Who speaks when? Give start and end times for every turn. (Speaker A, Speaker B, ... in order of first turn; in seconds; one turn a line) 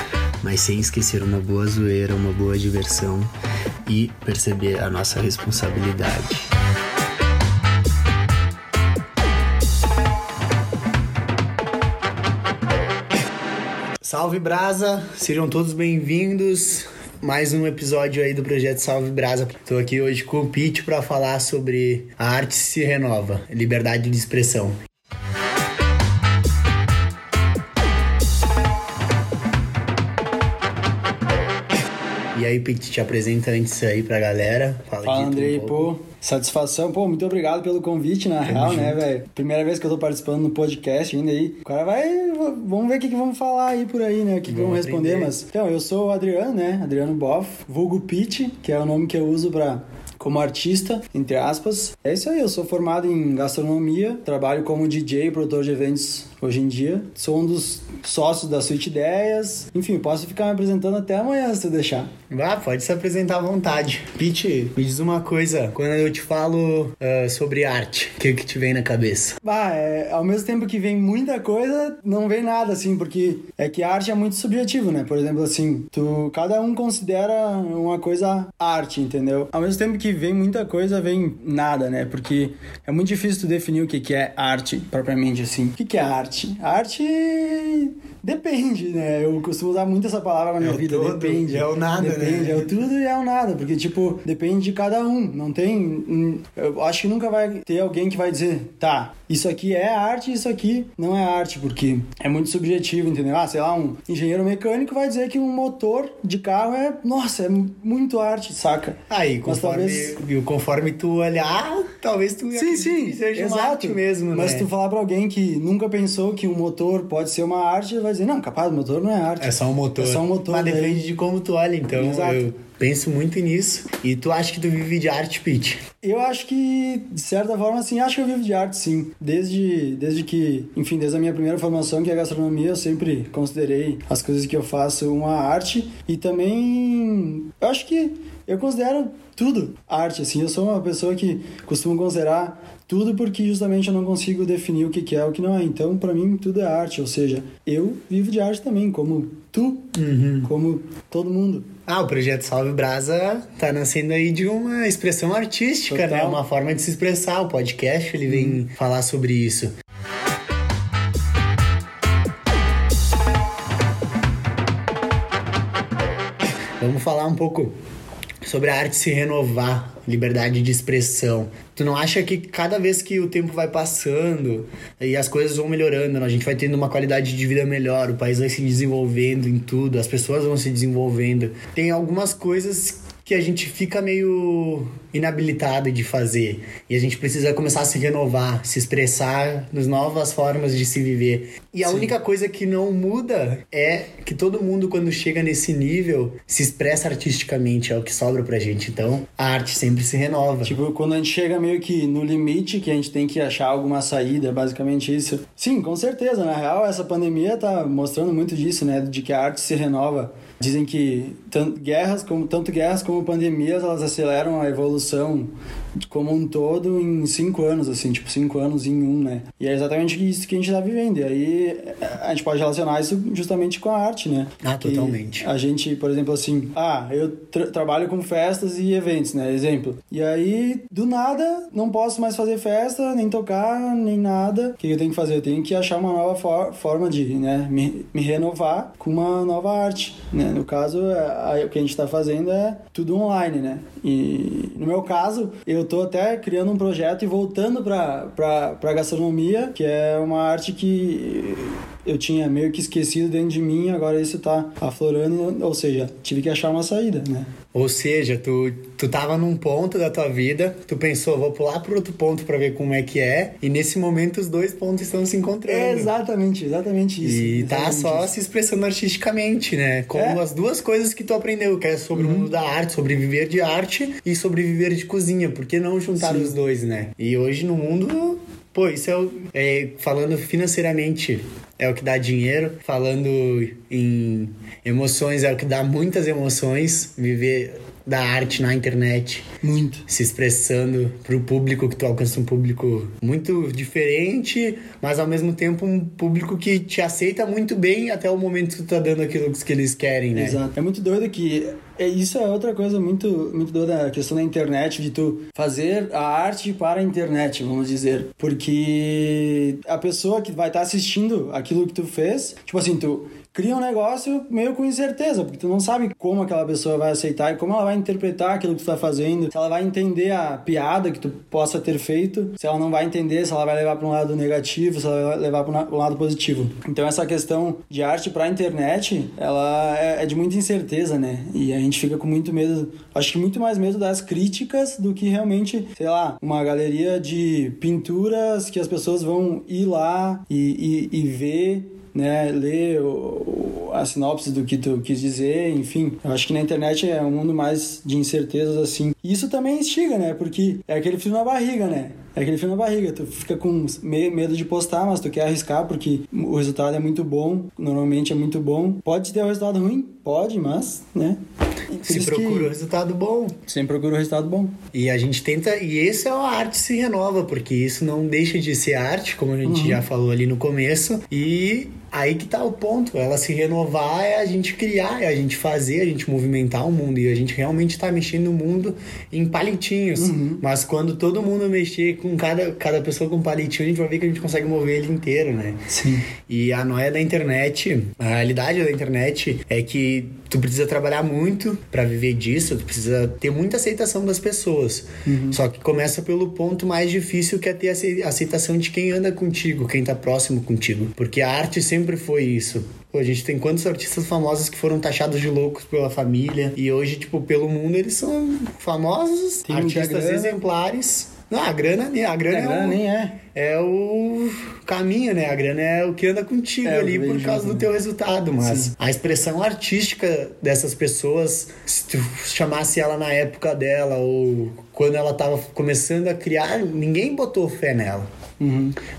Speaker A: 0.4-3.3
Speaker A: 3.8-6.5
Speaker A: 14.0-24.8
Speaker A: 32.3-35.9
Speaker B: 35.0-62.1
Speaker A: 38.4-39.0
Speaker A: 44.5-45.4
Speaker A: 62.3-69.4
Speaker B: 69.4-110.2
Speaker A: 90.6-92.8
Speaker A: 109.1-114.7
Speaker B: 112.5-121.0
Speaker A: 119.4-125.8
Speaker B: 121.9-122.5
Speaker B: 126.0-149.9
Speaker A: 149.9-150.5
Speaker B: 150.4-151.7
Speaker A: 151.9-159.7
Speaker B: 155.9-156.4
Speaker B: 158.3-158.6
Speaker A: 166.8-167.7
Speaker A: 168.4-200.8
Speaker B: 200.6-215.5
Speaker B: 216.1-257.5
Speaker A: 224.6-225.4
Speaker A: 257.7-266.1
Speaker B: 265.6-268.3
Speaker A: 267.2-289.5
Speaker B: 270.1-270.4
Speaker B: 272.1-272.5
Speaker B: 276.2-276.5
Speaker B: 289.6-290.1
Speaker A: 290.1-300.6
Speaker B: 300.3-361.4
Speaker B: 361.9-362.7
Speaker A: 362.0-363.6
Speaker B: 363.7-364.8
Speaker A: 364.9-385.8
Speaker B: 369.6-370.0
Speaker B: 380.1-380.6
Speaker B: 385.9-386.3
Speaker A: 386.4-428.3
Speaker B: 395.2-395.6
Speaker B: 409.7-410.6
Speaker B: 412.5-413.4
Speaker B: 416.8-417.9
Speaker B: 418.6-418.9
Speaker B: 428.6-429.0